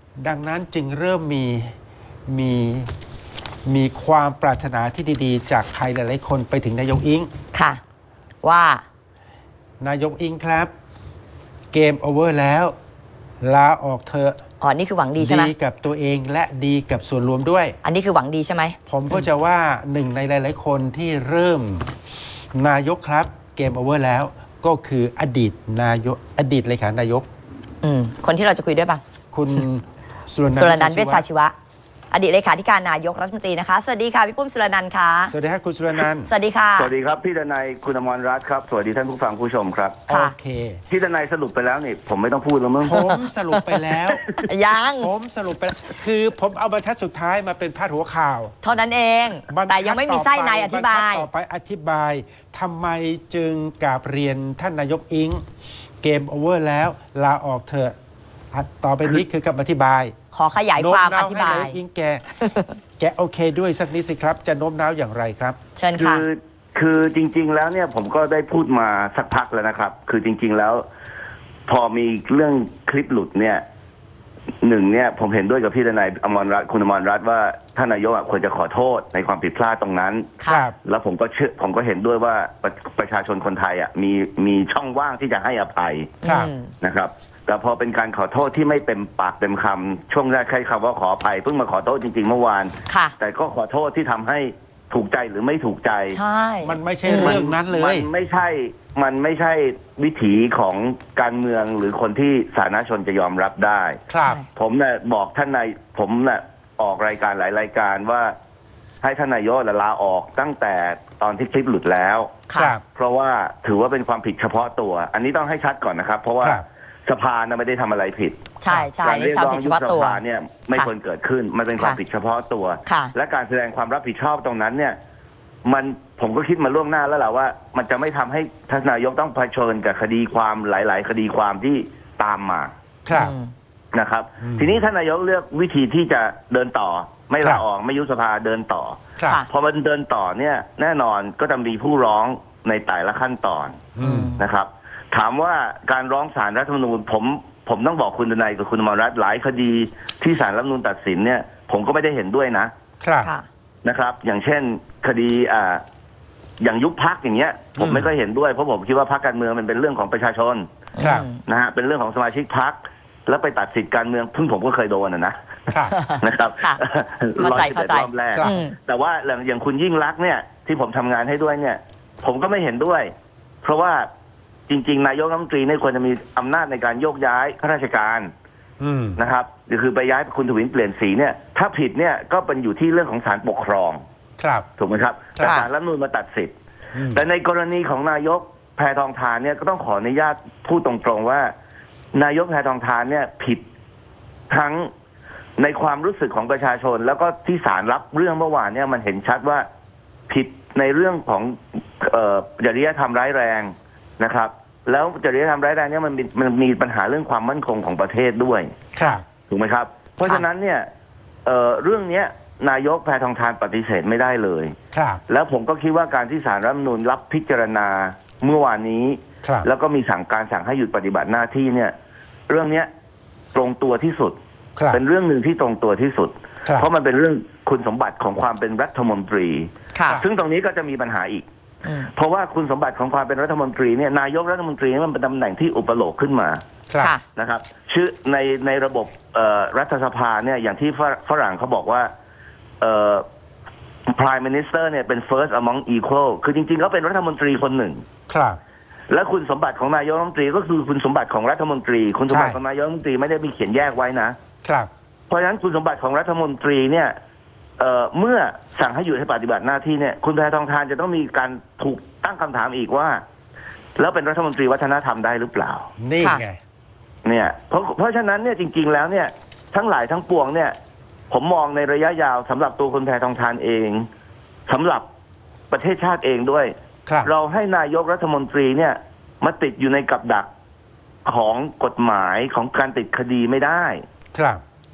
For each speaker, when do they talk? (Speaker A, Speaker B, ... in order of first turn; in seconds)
Speaker A: 0.2-1.8, 2.3-2.9, 3.6-7.3, 9.8-10.7, 11.7-12.7, 13.4-14.4, 15.2-17.8, 18.9-21.9, 22.5-27.2, 29.3-31.2, 35.3-36.3, 40.1-40.8, 42.9-44.2, 45.0-48.6, 49.5-55.4, 56.0-57.9, 58.5-60.1, 60.8-62.3, 63.0-65.6, 80.5-80.8, 86.2-86.5, 96.6-98.1, 104.1-104.4, 112.6-112.8, 133.1-133.3, 134.4-134.8, 143.9-144.3, 153.0-153.3, 157.8-158.1, 161.0-161.3, 165.7-166.0, 168.3-168.6, 178.8-179.2, 184.4-184.7, 186.9-187.2, 208.9-209.2, 214.9-215.2, 248.3-248.6, 252.3-252.6, 254.6-254.9, 266.0-266.6, 277.1-277.3, 284.3-284.6
Speaker B: 7.5-7.8, 8.4-8.8, 14.6-15.5, 17.8-19.2, 27.8-29.0, 30.6-31.5, 32.1-35.3, 36.2-36.9, 42.9-45.1, 48.6-51.3, 60.3-61.8, 62.4-62.7, 65.8-66.2, 80.4-80.7, 86.2-86.7, 92.9-93.1, 96.1-97.4, 118.6-120.2, 122.9-123.1, 133.1-133.5, 144.0-144.4, 161.0-161.4, 165.9-166.8, 167.4-168.8, 185.4-185.7, 229.9-230.2, 231.8-232.1
Speaker C: 36.8-40.1, 40.9-43.0, 66.0-70.8, 71.7-73.6, 74.6-86.2, 86.8-96.2, 97.1-104.0, 104.5-108.3, 109.0-125.0, 125.6-132.7, 133.9-152.7, 153.8-155.8, 156.6-160.7, 161.4-165.4, 166.2-174.1, 174.7-178.3, 179.2-184.0, 184.8-186.5, 187.1-191.5, 192.1-193.6, 194.5-194.9, 195.6-199.7, 200.3-208.7, 209.5-210.9, 211.4-214.8, 215.3-221.9, 222.5-222.9, 223.5-224.4, 224.9-231.5, 232.1-236.6, 237.3-242.1, 242.8-243.2, 244.1-248.0, 249.1-254.4, 255.3-257.1, 257.8-263.2, 263.9-265.9, 267.2-270.7, 271.3-274.1, 274.7-275.1, 275.7-280.5, 281.2-284.0